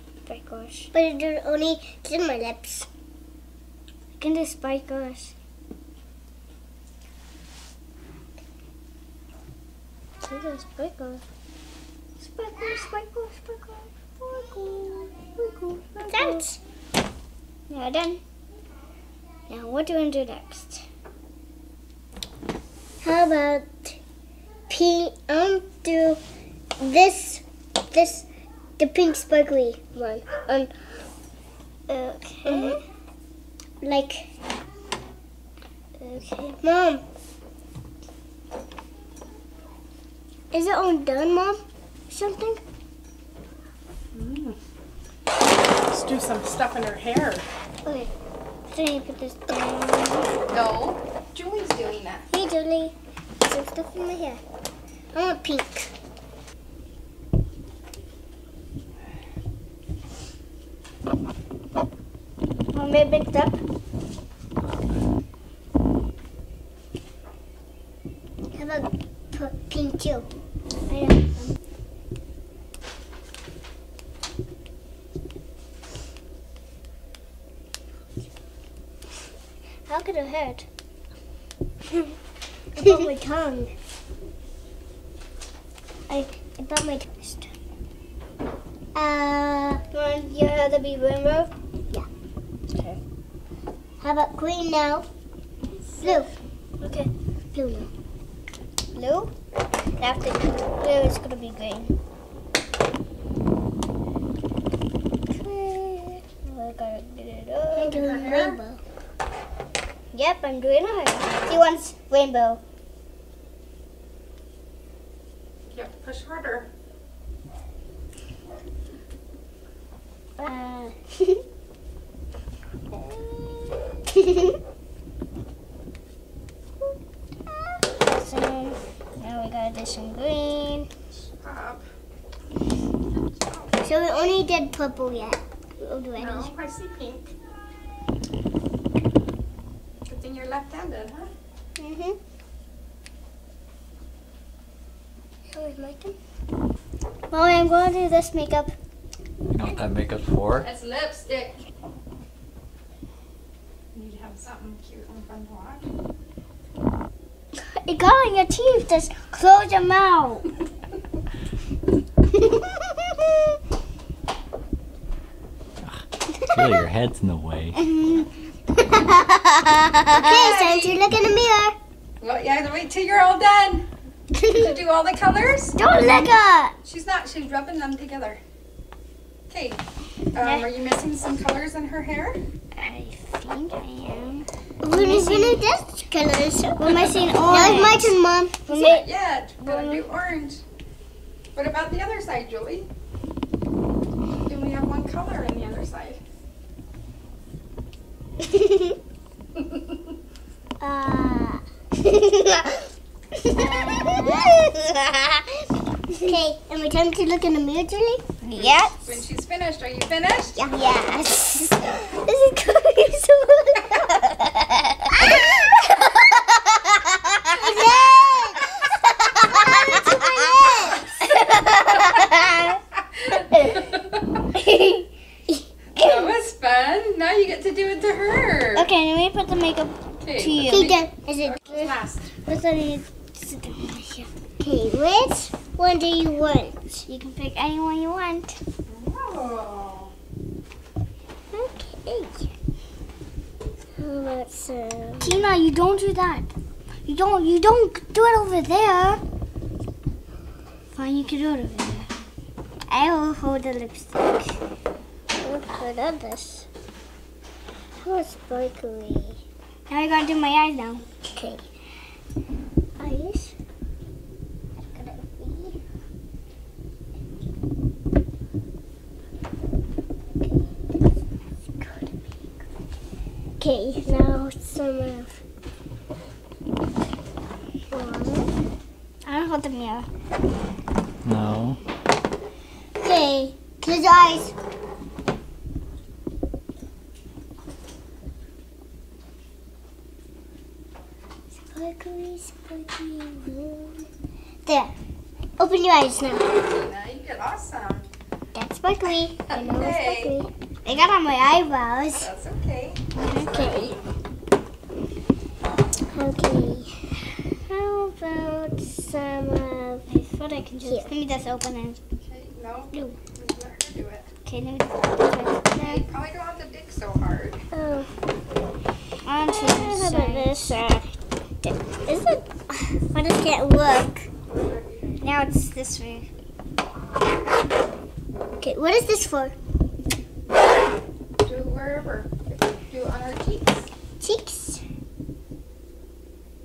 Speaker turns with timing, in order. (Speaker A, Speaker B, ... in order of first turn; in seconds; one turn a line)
Speaker A: 0.3-0.9
Speaker B: 0.9-2.9
Speaker A: 4.2-5.4
Speaker A: 10.2-11.2
Speaker A: 12.2-16.4
Speaker B: 16.1-16.6
Speaker A: 17.7-18.2
Speaker A: 19.5-20.9
Speaker B: 23.0-24.0
Speaker B: 24.7-26.2
Speaker B: 26.8-28.3
Speaker B: 28.8-30.7
Speaker A: 31.9-32.8
Speaker B: 32.5-32.8
Speaker B: 33.8-34.3
Speaker A: 36.0-36.6
Speaker B: 36.6-37.0
Speaker B: 40.5-42.6
Speaker C: 44.1-44.6
Speaker C: 45.8-47.5
Speaker A: 48.7-50.4
Speaker C: 50.5-52.3
Speaker B: 52.3-54.4
Speaker B: 55.1-55.9
Speaker A: 62.7-63.6
Speaker B: 68.5-70.3
Speaker A: 70.9-71.6
Speaker A: 79.9-80.7
Speaker B: 82.8-83.7
Speaker B: 86.1-87.5
Speaker B: 89.0-89.8
Speaker A: 89.9-91.5
Speaker A: 92.7-93.0
Speaker B: 94.0-95.1
Speaker A: 95.8-97.1
Speaker B: 96.0-96.3
Speaker B: 97.5-97.9
Speaker A: 98.9-99.3
Speaker A: 100.0-102.0
Speaker A: 105.3-108.0
Speaker B: 107.8-108.8
Speaker C: 107.9-108.6
Speaker A: 110.1-112.6
Speaker C: 115.7-116.7
Speaker A: 120.4-121.0
Speaker C: 122.9-123.8
Speaker A: 128.0-130.9
Speaker C: 131.1-131.8
Speaker C: 133.3-133.8
Speaker B: 133.8-135.4
Speaker A: 135.8-136.5
Speaker C: 136.2-137.3
Speaker C: 140.1-141.3
Speaker A: 141.8-142.2
Speaker B: 145.5-146.2
Speaker A: 147.3-148.7
Speaker D: 149.5-150.7
Speaker C: 150.6-151.6
Speaker C: 153.9-155.9
Speaker A: 157.6-160.5
Speaker D: 165.8-167.8
Speaker A: 167.8-170.1
Speaker B: 170.1-171.8
Speaker C: 170.1-171.0
Speaker C: 172.2-173.9
Speaker C: 174.4-175.8
Speaker A: 175.8-176.7
Speaker B: 176.1-176.3
Speaker C: 176.8-178.4
Speaker C: 179.5-182.4
Speaker A: 180.4-180.7
Speaker A: 182.8-185.7
Speaker B: 184.8-188.8
Speaker A: 186.8-188.1
Speaker A: 188.7-189.0
Speaker C: 188.7-190.6
Speaker A: 189.6-190.1
Speaker C: 191.6-192.9
Speaker C: 194.4-196.2
Speaker B: 198.4-199.0
Speaker A: 200.8-201.1
Speaker B: 200.9-202.8
Speaker A: 203.5-205.4
Speaker B: 203.5-204.6
Speaker B: 206.2-208.2
Speaker A: 208.4-209.2
Speaker C: 208.6-210.6
Speaker A: 210.6-217.6
Speaker B: 210.7-211.0
Speaker B: 217.5-218.8
Speaker B: 219.4-221.1
Speaker A: 221.5-222.8
Speaker C: 223.4-224.2
Speaker A: 223.6-223.8
Speaker A: 224.5-225.1
Speaker C: 226.0-228.9
Speaker A: 228.8-230.9
Speaker C: 230.2-232.3
Speaker B: 230.7-231.6
Speaker A: 232.5-234.3
Speaker B: 234.6-237.0
Speaker A: 237.0-238.6
Speaker C: 238.9-240.1
Speaker B: 241.5-242.5
Speaker B: 244.0-245.4
Speaker A: 245.2-246.5
Speaker A: 247.1-249.2
Speaker A: 250.9-252.1
Speaker A: 252.9-254.6
Speaker B: 255.4-256.7
Speaker B: 258.0-259.4
Speaker A: 259.9-261.1
Speaker B: 261.2-261.6
Speaker B: 263.0-263.6
Speaker B: 264.9-265.8
Speaker B: 270.4-270.9
Speaker B: 271.8-272.1
Speaker B: 273.6-275.4
Speaker B: 277.9-278.5
Speaker A: 279.2-280.1
Speaker D: 281.2-281.8
Speaker B: 283.0-284.5
Speaker B: 291.7-294.1
Speaker B: 294.7-294.9
Speaker B: 295.6-296.5
Speaker C: 296.3-298.1
Speaker B: 298.5-300.5
Speaker C: 299.5-300.5
Speaker A: 300.9-302.3
Speaker C: 302.1-304.1
Speaker A: 303.2-303.5
Speaker B: 303.4-303.9
Speaker B: 306.1-310.1
Speaker A: 310.1-312.0
Speaker B: 310.8-311.1
Speaker C: 312.2-314.3
Speaker A: 314.4-316.0
Speaker C: 315.7-317.6
Speaker B: 317.7-318.1
Speaker A: 319.2-320.9
Speaker B: 319.5-321.1
Speaker B: 321.6-324.3
Speaker C: 324.5-325.2
Speaker A: 325.2-326.3
Speaker B: 328.6-329.6
Speaker C: 331.4-333.9
Speaker B: 334.2-334.8